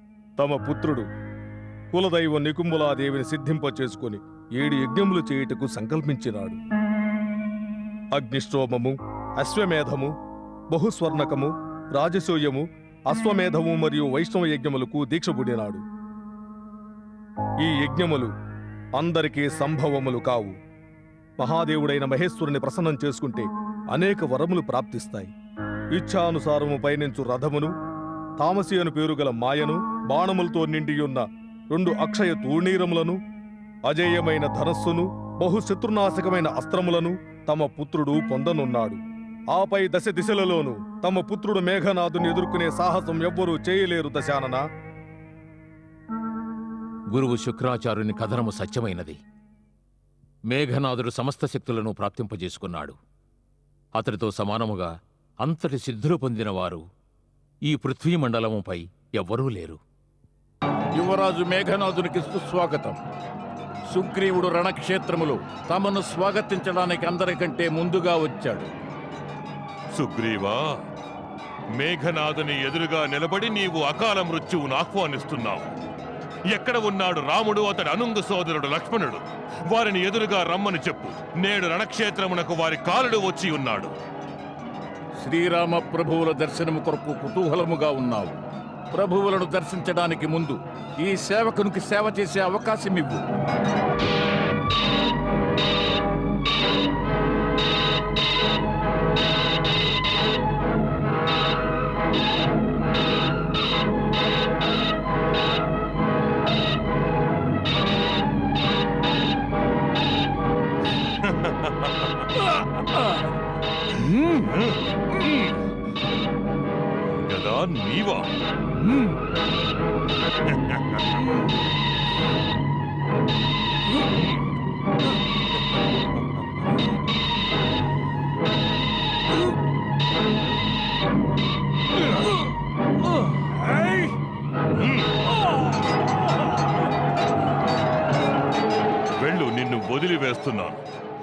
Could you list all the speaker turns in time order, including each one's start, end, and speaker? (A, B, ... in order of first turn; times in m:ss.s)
0:00.4-0:01.0 A
0:01.9-0:06.6 A
0:08.1-0:10.1 A
0:10.7-0:15.8 A
0:17.6-0:18.3 A
0:19.0-0:20.5 A
0:21.4-0:25.3 A
0:25.9-0:27.7 A
0:28.4-0:33.2 A
0:33.9-0:39.0 A
0:39.5-0:44.6 A
0:47.1-0:49.2 B
0:50.5-0:53.0 B
0:54.0-0:54.9 B
0:55.4-0:56.8 B
0:57.7-0:59.8 B
1:00.9-1:03.0 C
1:03.9-1:08.7 C
1:09.9-1:10.8 D
1:11.8-1:15.7 D
1:16.5-1:23.9 D
1:25.2-1:28.4 C
1:28.9-1:33.2 C
1:51.2-1:53.0 D
1:53.9-1:55.6 D
1:57.1-1:58.3 D
2:00.5-2:01.3 D
2:13.6-2:14.1 D
2:14.8-2:15.2 D
2:19.2-2:20.8 D